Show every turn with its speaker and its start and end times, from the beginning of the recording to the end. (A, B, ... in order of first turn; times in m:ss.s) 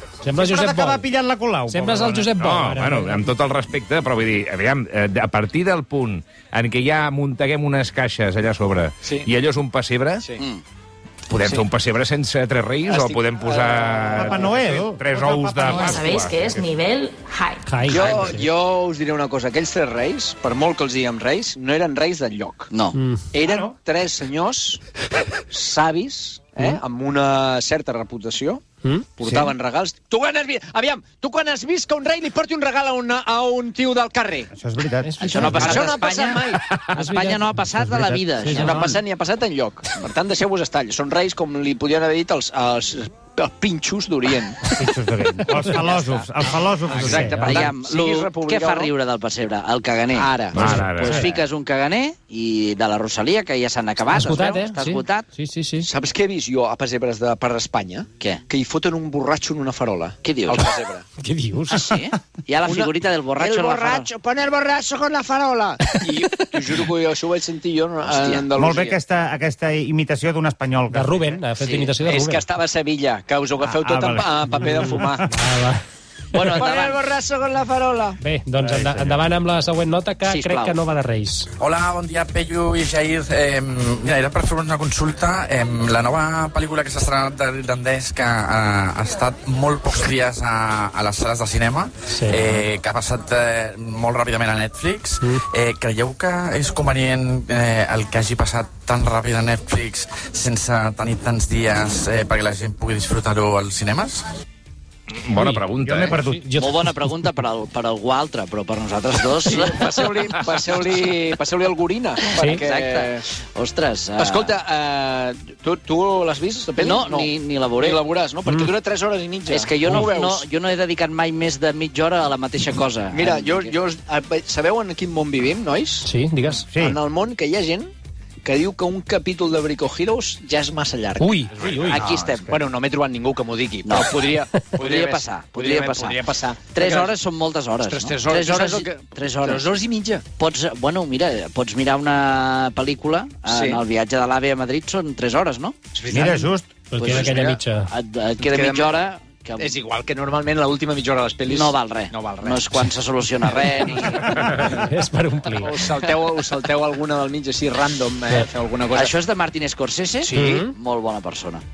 0:00.2-0:01.1 A
0:00.4-0:02.4 B
0:01.7-0:03.3 A
0:02.4-0:10.3 C
0:09.0-0:09.3 D
0:10.2-0:10.5 D
0:11.3-0:16.8 C
0:11.4-0:11.7 D
0:12.8-0:14.4 D
0:14.1-0:16.0 B
0:15.7-0:17.7 E
0:17.6-0:18.5 A
0:17.9-0:22.7 D
0:22.7-0:23.0 F
0:22.9-0:23.3 A
0:23.3-0:24.8 D
0:23.4-0:23.8 B
0:25.5-0:28.6 D
0:29.2-0:34.5 D
0:29.2-0:29.5 B
0:34.5-0:35.6 B
0:35.0-0:35.6 A
0:35.2-0:38.8 F
0:35.3-0:36.6 D
0:36.9-0:38.8 A
0:38.4-0:44.7 D
0:38.5-0:39.0 B
0:44.8-0:47.6 B
0:45.7-0:46.2 D
0:46.9-0:48.9 D
0:47.4-0:50.3 F
0:50.1-0:51.4 D
0:50.5-0:51.2 C
0:50.6-0:51.3 A
0:50.9-0:55.3 F
0:54.1-0:55.9 A
0:55.8-1:01.1 D
1:00.2-1:00.8 F
1:01.2-1:01.9 A
1:01.7-1:04.1 F
1:02.7-1:09.0 D
1:08.0-1:08.5 F
1:08.6-1:11.4 B
1:10.9-1:12.4 A
1:11.6-1:11.9 F
1:12.0-1:15.2 D
1:13.6-1:15.2 B
1:14.6-1:15.8 A
1:16.3-1:17.0 F
1:16.5-1:18.2 D
1:18.2-1:21.5 A
1:18.6-1:19.3 B
1:20.2-1:20.8 F
1:21.6-1:44.3 G
1:32.1-1:32.5 A
1:45.1-1:46.2 C
1:45.4-1:47.1 A
1:45.8-1:46.4 B
1:46.6-1:50.2 F
1:49.4-1:53.2 D
1:52.4-1:52.6 A
1:52.5-1:54.6 F
1:54.2-2:00.5 D
1:56.8-1:58.0 F
1:59.5-2:03.7 F
2:03.1-2:06.1 D
2:06.0-2:06.6 A
2:06.7-2:07.9 D
2:06.7-2:07.0 B
2:08.4-2:17.2 D
2:11.2-2:12.0 A
2:11.9-2:12.6 F
2:13.8-2:14.2 F
2:14.8-2:16.2 F
2:16.8-2:19.7 F
2:17.8-2:20.2 D
2:20.4-2:25.8 F
2:23.5-2:23.8 D
2:25.9-2:27.6 D
2:26.1-2:26.7 B
2:26.9-2:27.9 A
2:27.0-2:29.7 F
2:28.4-2:29.0 D
2:29.6-2:32.6 D
2:31.5-2:34.4 F
2:34.4-2:35.7 A
2:35.6-2:39.2 D
2:38.9-2:41.6 F
2:40.2-2:40.7 D
2:40.3-2:40.7 A